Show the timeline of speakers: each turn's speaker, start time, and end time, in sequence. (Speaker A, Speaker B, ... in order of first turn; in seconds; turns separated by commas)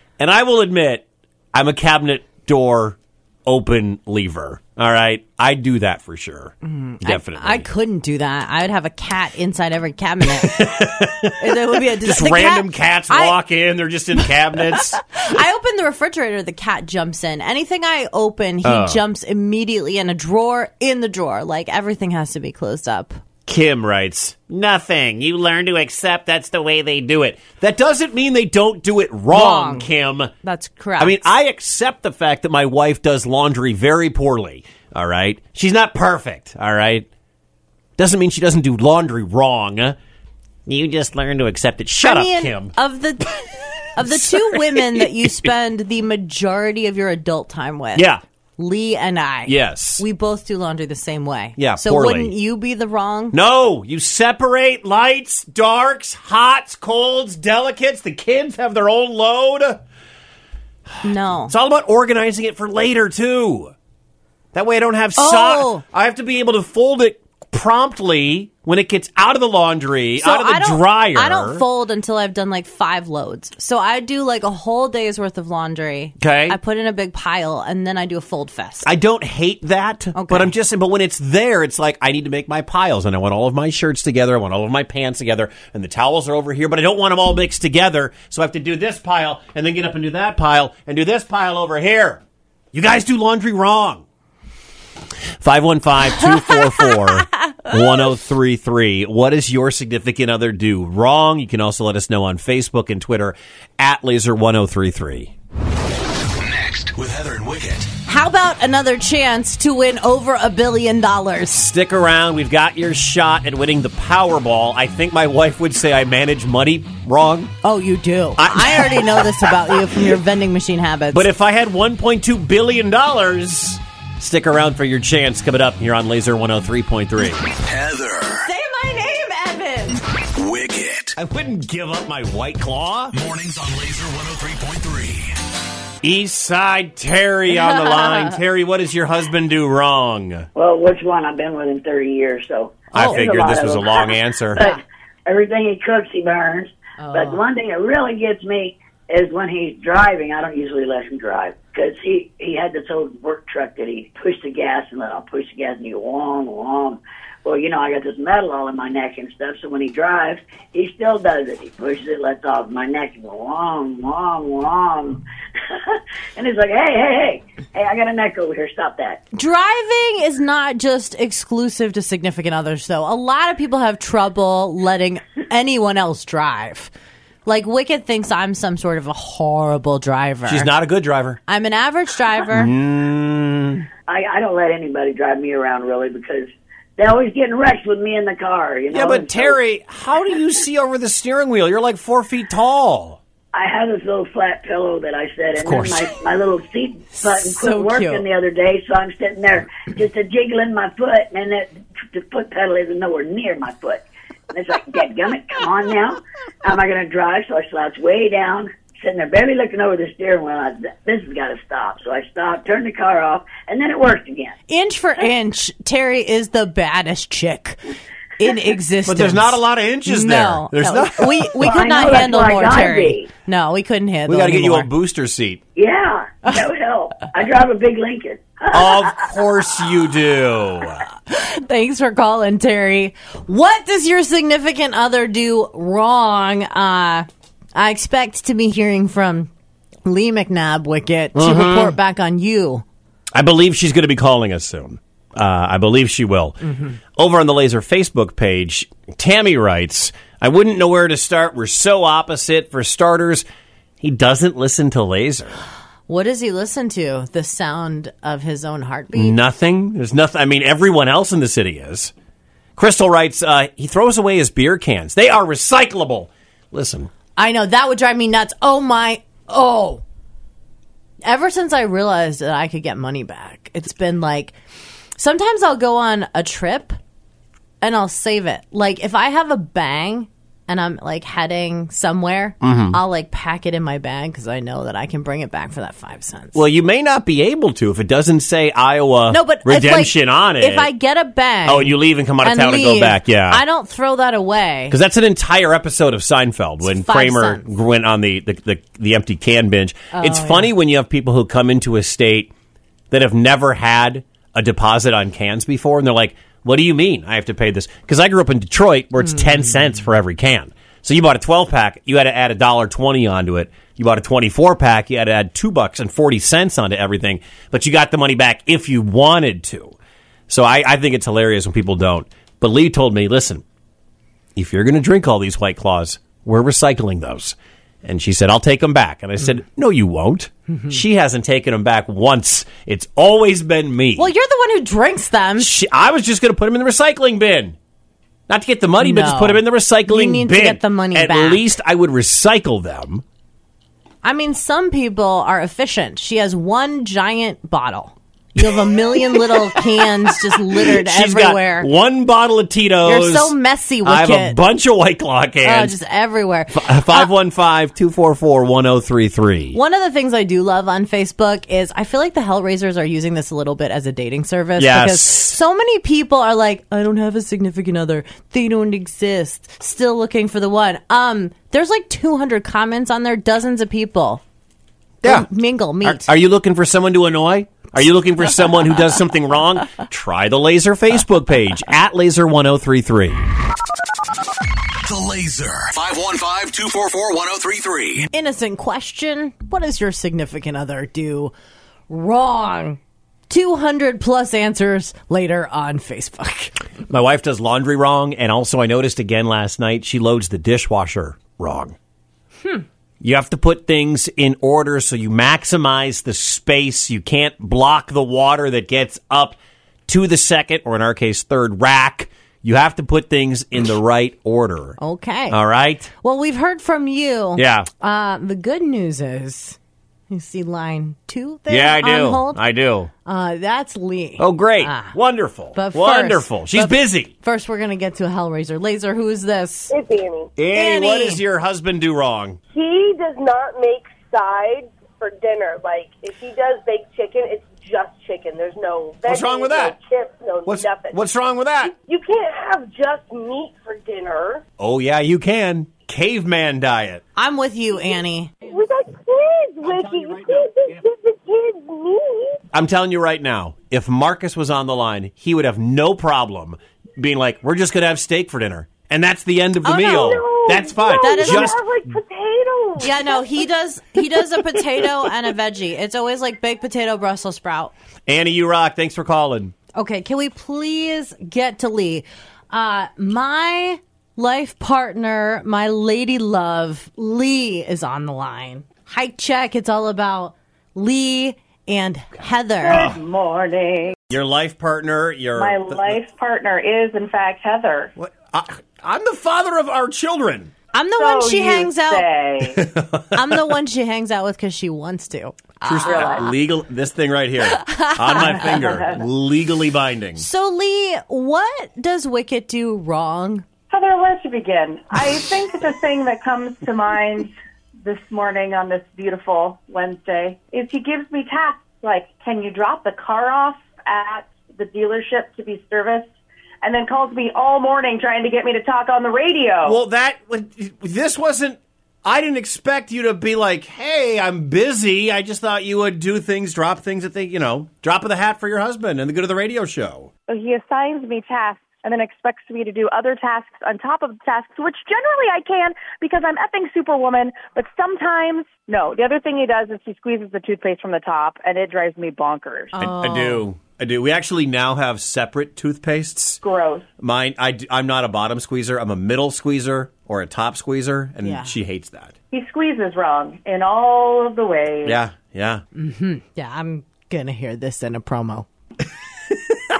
Speaker A: 0.2-7.7, Speaker B: 6.6-10.6, Speaker A: 10.4-15.4, Speaker B: 11.4-13.4, Speaker B: 14.2-23.2, Speaker A: 18.6-19.0, Speaker A: 23.4-30.3, Speaker B: 29.3-29.9, Speaker B: 30.4-31.3, Speaker A: 31.0-37.1, Speaker A: 38.0-40.0, Speaker A: 40.7-42.7, Speaker B: 42.0-43.3, Speaker B: 43.9-53.3, Speaker A: 44.0-45.5, Speaker A: 48.0-48.2, Speaker A: 49.5-50.0, Speaker A: 51.6-52.3, Speaker A: 53.3-59.8, Speaker B: 61.0-61.5, Speaker A: 61.5-63.7, Speaker A: 64.5-71.6, Speaker B: 65.2-65.8, Speaker B: 70.2-78.9, Speaker A: 76.2-76.6, Speaker A: 78.8-94.0, Speaker B: 80.1-80.5, Speaker A: 95.4-105.3, Speaker C: 106.4-107.9, Speaker B: 108.0-111.6, Speaker A: 111.5-117.5, Speaker B: 117.6-121.2, Speaker A: 118.4-119.8, Speaker A: 121.1-127.5, Speaker C: 127.7-128.4, Speaker B: 128.4-130.0, Speaker C: 130.4-131.1, Speaker A: 131.2-133.2, Speaker C: 133.1-135.4, Speaker A: 136.0-140.5, Speaker D: 140.5-165.2, Speaker A: 142.9-144.6, Speaker B: 142.9-143.2, Speaker B: 147.0-147.4, Speaker D: 165.7-169.2, Speaker B: 169.3-176.9, Speaker B: 177.4-180.7, Speaker A: 180.4-181.4, Speaker B: 181.5-182.7, Speaker A: 182.5-183.9, Speaker D: 184.1-189.6, Speaker A: 188.9-193.2, Speaker D: 193.5-214.5, Speaker A: 195.6-196.1, Speaker B: 197.2-198.3, Speaker B: 214.7-217.8, Speaker B: 218.4-224.9, Speaker A: 219.1-221.7, Speaker D: 221.6-223.3, Speaker A: 224.3-225.6, Speaker D: 225.8-229.1, Speaker A: 228.7-231.0, Speaker B: 231.3-239.5, Speaker B: 240.0-242.8, Speaker A: 241.3-241.9, Speaker A: 243.3-253.4, Speaker A: 254.0-255.6, Speaker B: 256.1-259.4, Speaker A: 259.1-262.1, Speaker A: 262.8-267.1, Speaker B: 267.4-270.0, Speaker B: 271.2-274.6, Speaker B: 275.2-277.0, Speaker B: 277.8-286.6, Speaker A: 282.6-283.0, Speaker A: 286.5-290.9, Speaker B: 289.3-294.9, Speaker A: 291.6-293.6, Speaker A: 294.9-302.5, Speaker B: 296.8-297.7, Speaker B: 300.1-300.7, Speaker A: 303.1-319.9, Speaker A: 320.5-323.6, Speaker A: 324.6-334.3, Speaker B: 334.2-335.7, Speaker A: 335.6-337.8, Speaker A: 338.5-343.2, Speaker B: 339.0-341.6, Speaker B: 344.2-351.9, Speaker A: 349.2-355.9, Speaker B: 353.0-354.6, Speaker B: 355.6-357.3, Speaker A: 356.7-359.8, Speaker B: 359.7-374.4, Speaker A: 364.8-365.6, Speaker A: 375.2-375.5, Speaker B: 375.2-376.3, Speaker A: 376.0-383.4, Speaker C: 385.0-388.2, Speaker B: 388.3-391.5, Speaker B: 392.1-396.8, Speaker A: 397.1-401.9, Speaker A: 403.2-415.0, Speaker B: 415.0-415.6, Speaker A: 415.5-416.1, Speaker B: 416.1-419.8, Speaker A: 417.6-417.9, Speaker B: 420.3-422.6, Speaker A: 421.7-423.1, Speaker B: 423.2-425.1, Speaker A: 424.4-427.3, Speaker B: 425.7-429.9, Speaker E: 429.9-430.5, Speaker A: 430.6-432.6, Speaker B: 430.7-431.4, Speaker E: 432.7-441.2, Speaker A: 439.2-440.0, Speaker A: 440.6-441.9, Speaker E: 441.8-444.6, Speaker A: 444.8-447.2, Speaker B: 447.4-448.6, Speaker E: 447.9-452.6, Speaker A: 452.7-461.8, Speaker B: 459.8-460.4, Speaker E: 459.9-463.6, Speaker B: 461.1-461.7, Speaker B: 463.0-467.9, Speaker A: 468.3-469.7, Speaker B: 469.9-483.1, Speaker F: 482.8-484.1, Speaker A: 482.9-483.2, Speaker A: 484.3-486.2, Speaker F: 485.6-488.1, Speaker A: 488.2-490.7, Speaker B: 490.9-492.2, Speaker F: 491.2-492.8, Speaker A: 492.6-493.7, Speaker B: 493.3-496.5, Speaker A: 495.8-500.4, Speaker F: 496.0-496.5, Speaker B: 497.8-499.0, Speaker F: 498.4-499.2, Speaker B: 500.4-503.6, Speaker F: 503.9-507.5, Speaker F: 508.0-516.3, Speaker F: 516.8-520.0, Speaker A: 519.8-530.3, Speaker F: 530.5-542.9, Speaker B: 543.0-543.6, Speaker A: 543.0-546.6, Speaker F: 546.6-547.0, Speaker A: 547.2-552.3, Speaker B: 551.4-551.7, Speaker F: 552.5-555.2, Speaker A: 555.0-555.8, Speaker B: 555.9-558.7